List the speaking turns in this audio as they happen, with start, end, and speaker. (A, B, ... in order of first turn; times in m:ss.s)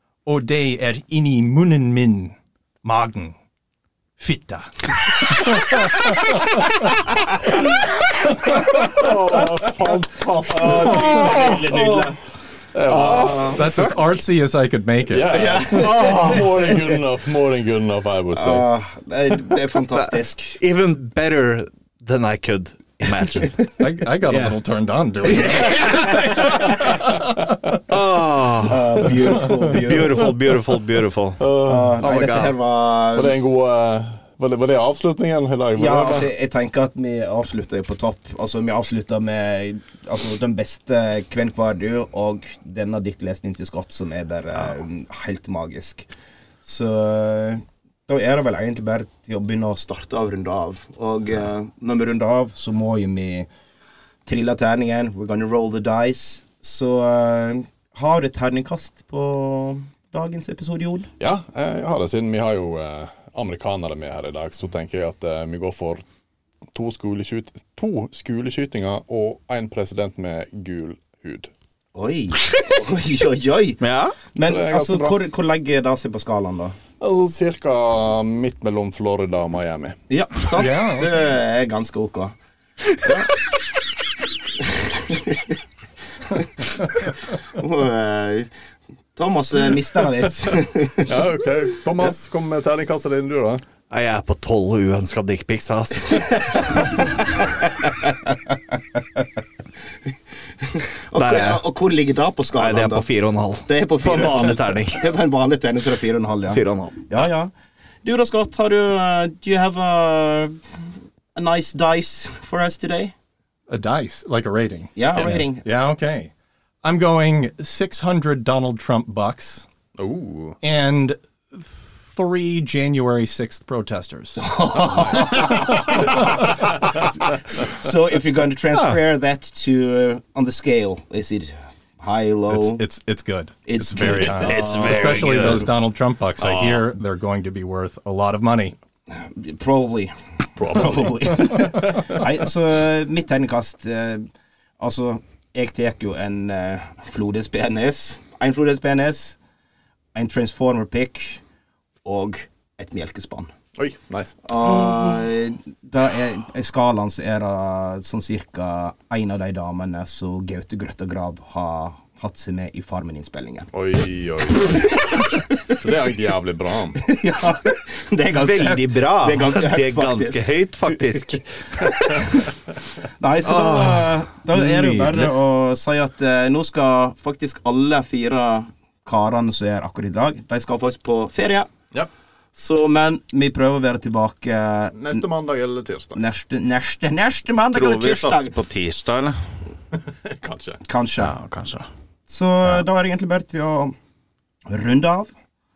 0:00.2-0:03.4 A
0:04.2-0:04.7 A
0:05.3-0:06.4 A
0:08.6-0:12.0 B
0:10.5-0:12.2 C
0:12.7-0:13.6 B
0:12.9-0:13.6 C
0:12.9-0:14.1 D
0:13.5-0:15.8 A
0:15.1-0:18.7 B
0:15.2-0:16.7 C
0:18.3-0:20.6 C
0:19.9-0:23.6 D
0:23.8-0:27.4 A
0:24.3-0:24.5 D
0:25.4-0:26.5 D
0:27.9-0:31.4 D
0:28.6-0:30.3 C
0:31.4-0:32.5 B
0:31.6-0:33.4 C
0:32.0-0:32.5 D
0:33.1-0:36.3 B
0:35.8-0:46.1 C
0:46.6-0:53.5 C
0:54.2-1:01.1 C
1:01.2-1:06.0 B
1:06.7-1:11.5 B
1:11.9-1:13.8 C
1:13.8-1:14.2 D
1:14.3-1:16.8 C
1:14.4-1:15.2 B
1:17.0-1:20.0 B
1:20.1-1:22.3 C
1:20.5-1:21.1 A
1:23.0-1:23.3 C
1:24.6-1:25.5 C
1:26.3-1:28.5 C
1:29.2-1:31.2 C
1:31.0-1:33.6 B
1:33.9-1:36.8 D
1:37.9-1:38.1 C
1:40.6-1:43.1 C
1:41.1-1:41.6 D
1:42.5-1:45.1 D
1:43.7-1:47.5 C
1:46.5-1:47.2 D
1:48.0-1:50.5 C
1:51.3-1:53.1 C
1:53.7-1:56.3 A
1:55.0-1:55.6 C
1:56.8-1:59.7 A
2:00.0-2:00.6 B
2:00.6-2:04.5 A
2:04.4-2:12.8 C
2:04.7-2:06.2 B
2:05.3-2:06.5 A
2:08.7-2:09.0 D
2:12.5-2:18.8 A
2:13.6-2:14.7 C
2:14.0-2:15.7 B
2:14.3-2:15.6 D
2:16.4-2:16.8 B
2:19.1-2:24.2 C
2:20.6-2:21.1 B
2:24.8-2:29.4 C
2:30.1-2:31.4 C
2:32.0-2:33.5 C
2:33.8-2:35.2 B
2:34.4-2:43.7 C
2:43.7-2:45.0 B
2:45.7-2:47.0 B
2:47.0-2:52.5 C
2:48.3-2:51.9 D
2:53.2-3:01.7 C
2:53.4-2:55.3 D
3:02.5-3:05.2 C
3:04.9-3:06.2 B
3:06.2-3:08.5 C
3:07.7-3:09.4 D
3:09.9-3:10.8 B
3:10.8-3:11.3 C
3:11.2-3:11.9 D
3:12.3-3:13.9 C
3:14.7-3:15.3 C